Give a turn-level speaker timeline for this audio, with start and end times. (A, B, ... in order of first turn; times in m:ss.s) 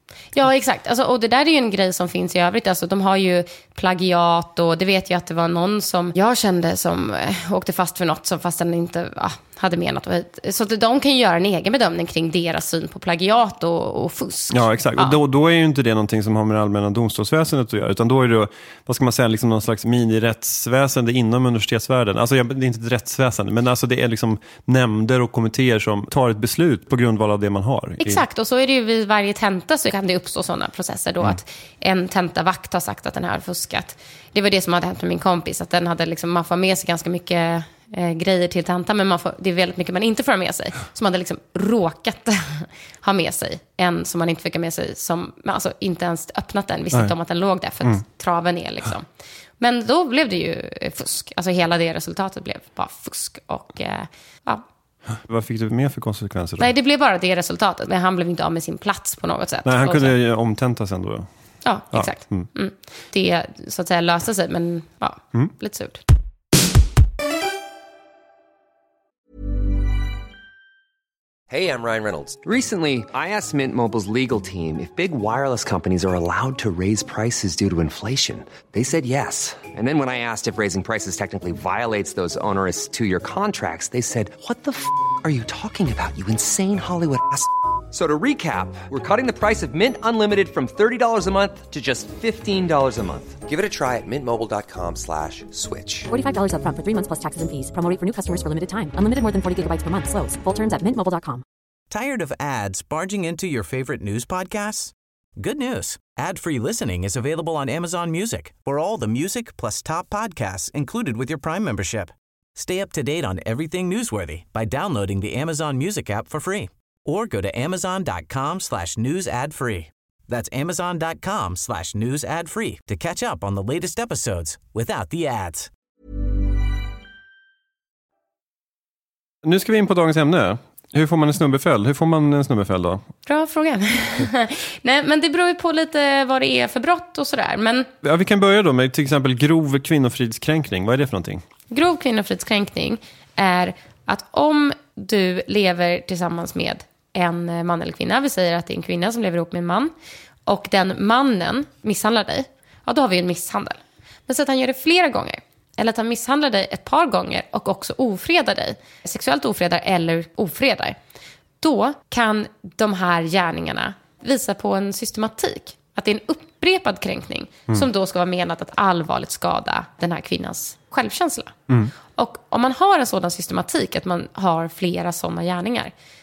0:00.3-0:15.2 A
0:14.5-0:28.2 B
0:28.0-0:49.1 A
0:49.6-0:54.6 A
0:55.1-0:56.7 B
0:56.6-1:00.1 A
0:59.6-1:01.3 B
1:01.6-1:06.0 A
1:01.9-1:02.5 B
1:11.5-1:36.1 C
1:36.1-1:41.4 D
1:41.9-2:05.7 E
2:09.4-2:13.1 B
2:13.3-2:17.9 A
2:18.0-2:21.4 B
2:21.7-2:29.9 A
2:30.5-2:41.0 A
2:41.6-2:51.6 A
2:52.2-2:55.9 A